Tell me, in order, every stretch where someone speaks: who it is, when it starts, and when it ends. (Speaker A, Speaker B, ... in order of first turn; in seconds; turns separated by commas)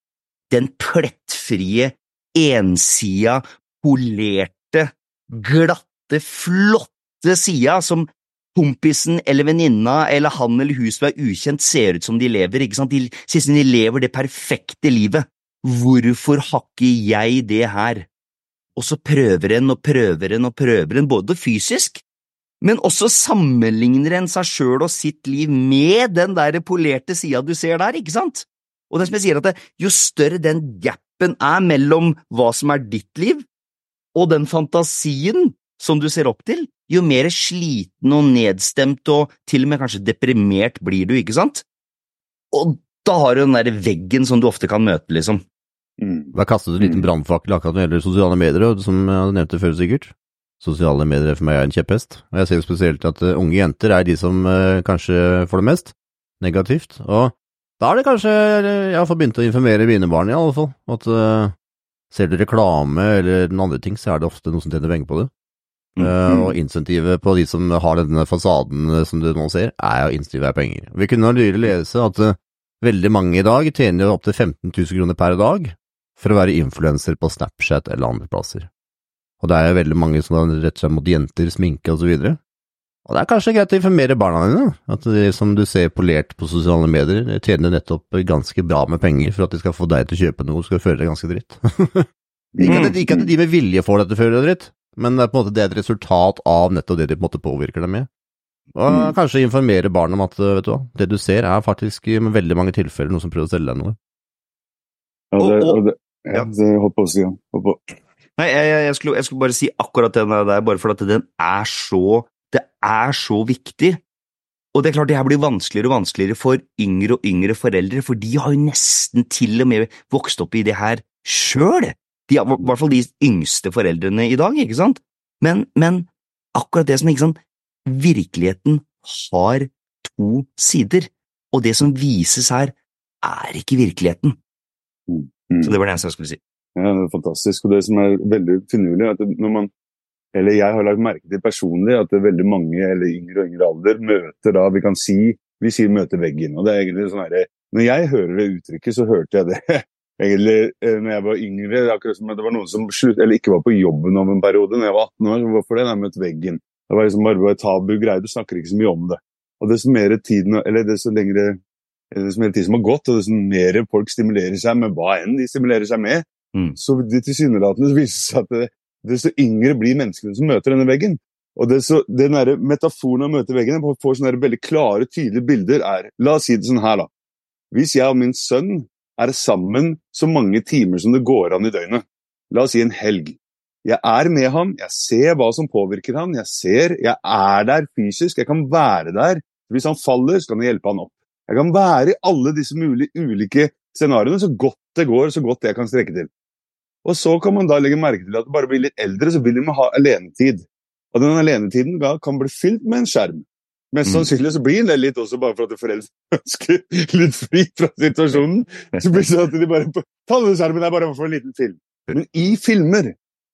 Speaker A: 0.5-18.1, Speaker A: 18.8-22.0, Speaker A: 22.6-33.4, Speaker A: 34.1-41.6, Speaker A: 42.5-45.4, Speaker B: 46.0-47.1, Speaker C: 46.3-61.5, Speaker C: 62.1-65.3, Speaker C: 66.0-78.7, Speaker C: 79.4-82.4, Speaker C: 83.0-92.0, Speaker B: 92.5-93.3, Speaker C: 92.6-98.1, Speaker A: 92.7-93.0, Speaker C: 98.7-104.0, Speaker B: 98.9-99.1, Speaker B: 105.3-107.8, Speaker A: 105.4-105.8, Speaker A: 108.4-114.0, Speaker A: 114.7-134.3, Speaker B: 135.1-135.8, Speaker A: 135.6-136.4, Speaker B: 136.8-139.7, Speaker B: 140.3-161.6, Speaker B: 162.1-166.2, Speaker B: 166.8-177.1, Speaker B: 177.7-196.3, Speaker B: 197.0-213.2